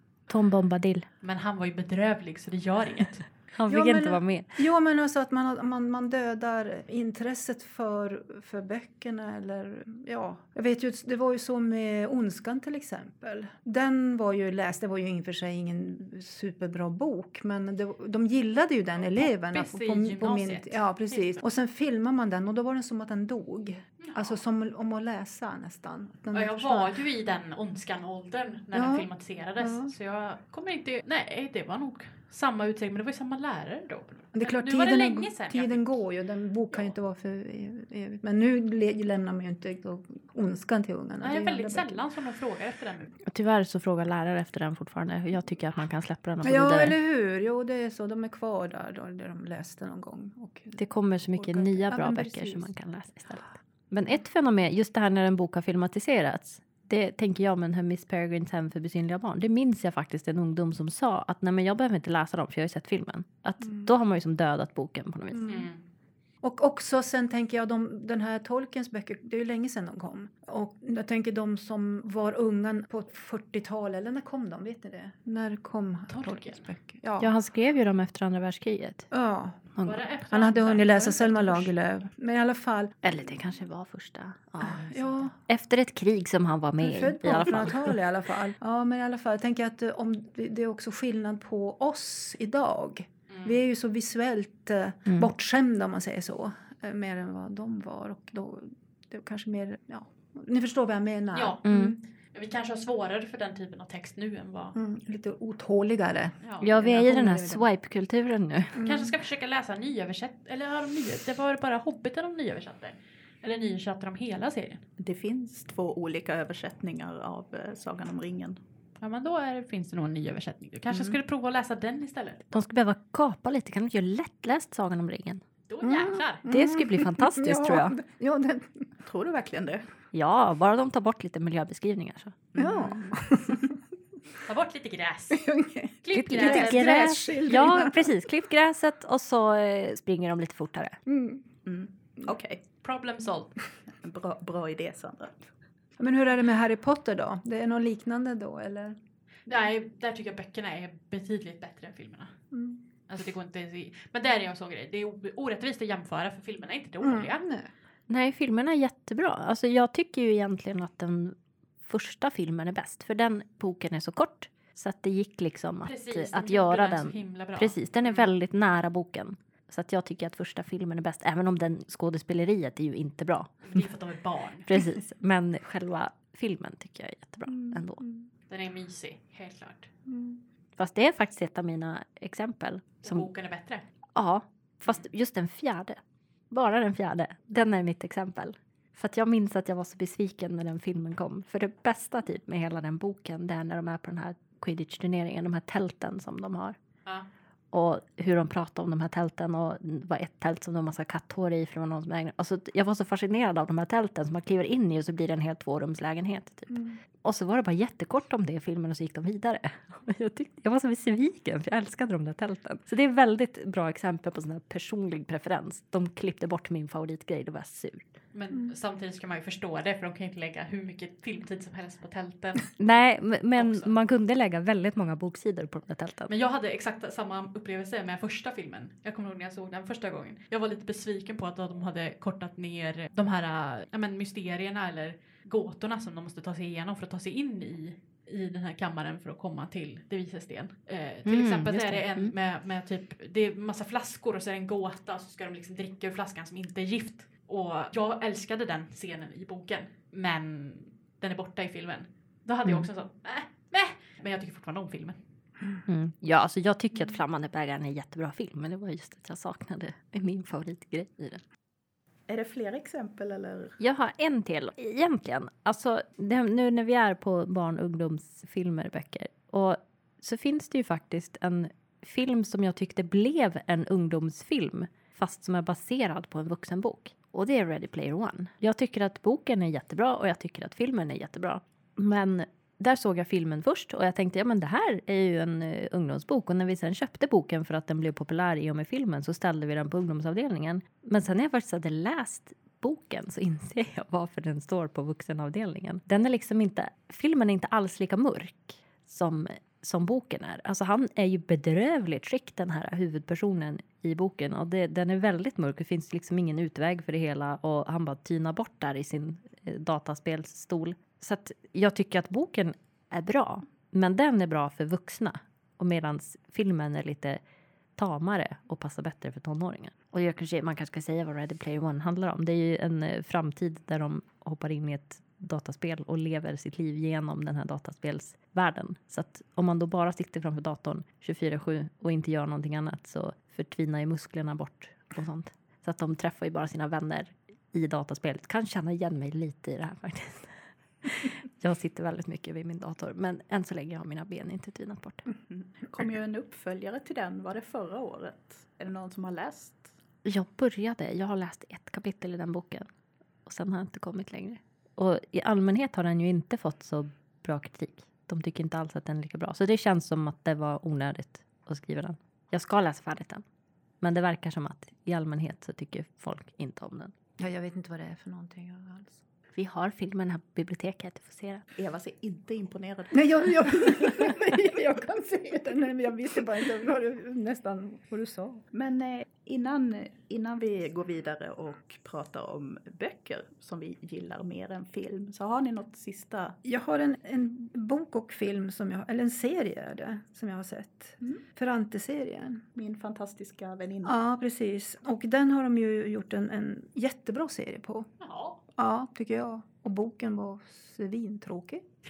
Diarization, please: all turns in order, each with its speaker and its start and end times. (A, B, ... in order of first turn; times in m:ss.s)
0:00.3-0:01.1 A
0:01.2-0:03.2 B
0:03.5-0:04.6 A
0:03.7-0:27.0 C
0:19.1-0:21.4 B
0:24.0-0:24.4 B
0:26.3-0:35.9 B
0:28.7-0:29.1 C
0:29.6-0:29.9 C
0:34.3-0:42.0 C
0:41.2-0:43.1 B
0:43.3-0:47.0 A
0:46.4-0:52.7 C
0:50.8-1:05.5 A
1:05.3-1:05.6 C
1:05.5-1:05.8 B
1:06.4-1:17.3 C
1:16.1-1:16.7 B
1:17.2-1:19.1 A
1:19.1-1:19.7 C
1:19.8-1:20.0 A
1:19.8-1:21.8 B
1:20.3-1:23.0 C
1:23.0-1:28.0 A
1:24.6-1:25.3 C
1:26.8-1:42.0 C
1:33.3-1:33.6 B
1:41.3-1:41.6 B
1:41.6-1:42.0 A
1:42.3-1:44.8 B
1:44.7-1:47.6 C
1:46.4-1:46.7 B
1:46.6-1:48.8 A
1:48.8-1:49.1 C
1:48.8-1:54.8 B
1:55.0-1:58.6 D
1:59.0-2:02.4 B
2:00.9-2:01.2 D
2:02.5-2:05.4 A
2:05.7-2:06.5 B
2:05.8-2:08.9 C
2:06.5-2:08.0 A
2:09.0-2:09.9 D
2:10.1-2:12.4 A
2:12.5-2:13.7 D
2:12.6-2:13.8 C
2:14.4-2:15.5 B
2:15.3-2:18.2 C
2:16.0-2:17.1 B
2:16.1-2:21.0 A
2:21.1-2:21.4 C
2:21.6-2:22.6 D
2:22.8-2:23.6 B
2:23.9-2:25.5 D
2:26.0-2:29.0 C
2:29.5-2:32.4 B
2:32.5-2:32.8 C
2:33.1-2:37.4 B
2:37.0-2:37.7 C
2:38.1-2:53.9 A
2:45.8-2:48.3 B
2:53.6-2:54.7 B
2:54.7-2:58.0 A
2:57.7-2:58.3 C
2:58.5-2:59.9 B
3:00.1-3:00.4 C
3:00.8-3:03.3 A
3:03.0-3:03.8 B
3:04.2-3:06.0 A
3:06.5-3:16.8 A
3:17.7-3:38.1 A
3:26.7-3:27.0 C
3:38.3-3:42.8 B
3:42.8-3:46.3 A
3:43.6-3:43.9 B
3:46.3-4:15.2 B
4:01.3-4:02.3 A
4:15.9-4:21.4 A
4:22.3-4:23.8 D
4:23.8-5:17.4 A
5:18.0-5:40.5 A
5:41.0-5:45.2 A
5:45.5-5:49.9 D
5:50.2-5:52.9 A
5:53.5-6:03.4 A
6:04.0-6:07.1 A
6:07.4-6:09.2 C
6:09.5-6:11.7 A
6:11.8-6:14.5 D
6:13.1-6:18.6 C
6:18.7-6:26.6 D
6:26.6-6:32.6 C
6:32.8-6:34.2 D
6:34.0-6:38.1 C
6:38.2-6:38.6 B
6:38.8-6:41.8 C